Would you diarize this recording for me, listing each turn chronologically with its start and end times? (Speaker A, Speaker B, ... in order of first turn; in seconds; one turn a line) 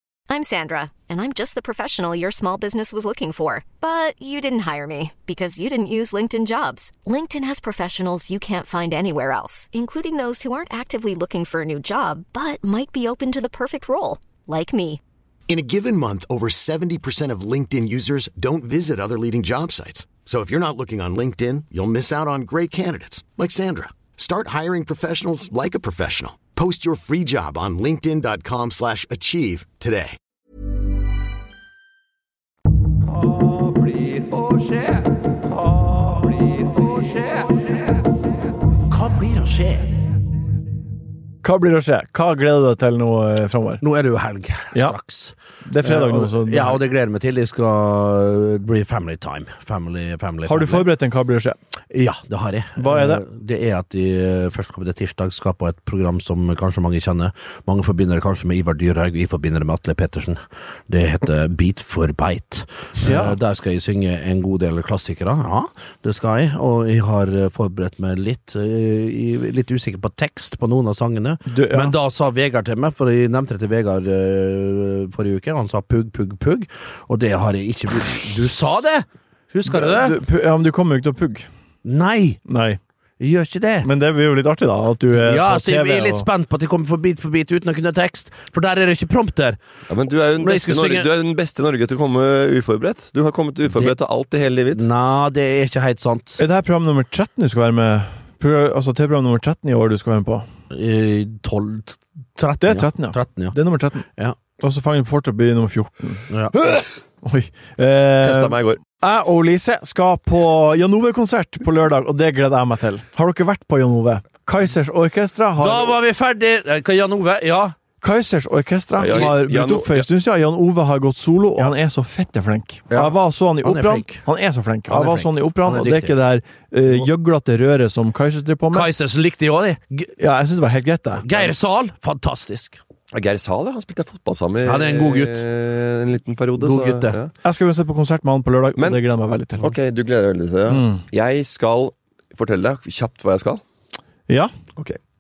Speaker A: 0.3-15.0
Speaker B: 15.5-30.1
Speaker C: 33.1-37.6
Speaker D: 38.9-39.9
Speaker E: 41.4-43.8
Speaker D: 43.8-50.9
Speaker E: 45.6-46.8
Speaker E: 50.4-51.6
Speaker D: 51.9-80.2
Speaker E: 52.8-53.2
Speaker E: 63.0-63.4
Speaker E: 71.5-71.9
Speaker E: 79.7-81.5
Speaker D: 81.8-82.4
Speaker E: 82.5-82.8
Speaker D: 83.2-83.9
Speaker E: 83.8-86.3
Speaker D: 85.2-89.6
Speaker C: 89.9-94.8
Speaker D: 90.4-91.1
Speaker D: 94.7-96.4
Speaker E: 96.4-100.5
Speaker D: 100.7-103.5
Speaker E: 102.6-104.0
Speaker E: 104.6-116.0
Speaker D: 106.3-106.5
Speaker C: 108.2-108.8
Speaker D: 115.6-117.8
Speaker E: 118.0-128.9
Speaker C: 119.0-120.0
Speaker D: 122.9-124.2
Speaker D: 124.9-126.1
Speaker D: 128.7-130.1
Speaker E: 130.2-131.2
Speaker D: 131.2-132.8
Speaker C: 133.1-137.3
Speaker D: 134.6-135.4
Speaker D: 136.6-137.2
Speaker E: 137.4-139.8
Speaker C: 139.6-143.6
Speaker E: 140.7-141.0
Speaker E: 144.3-144.6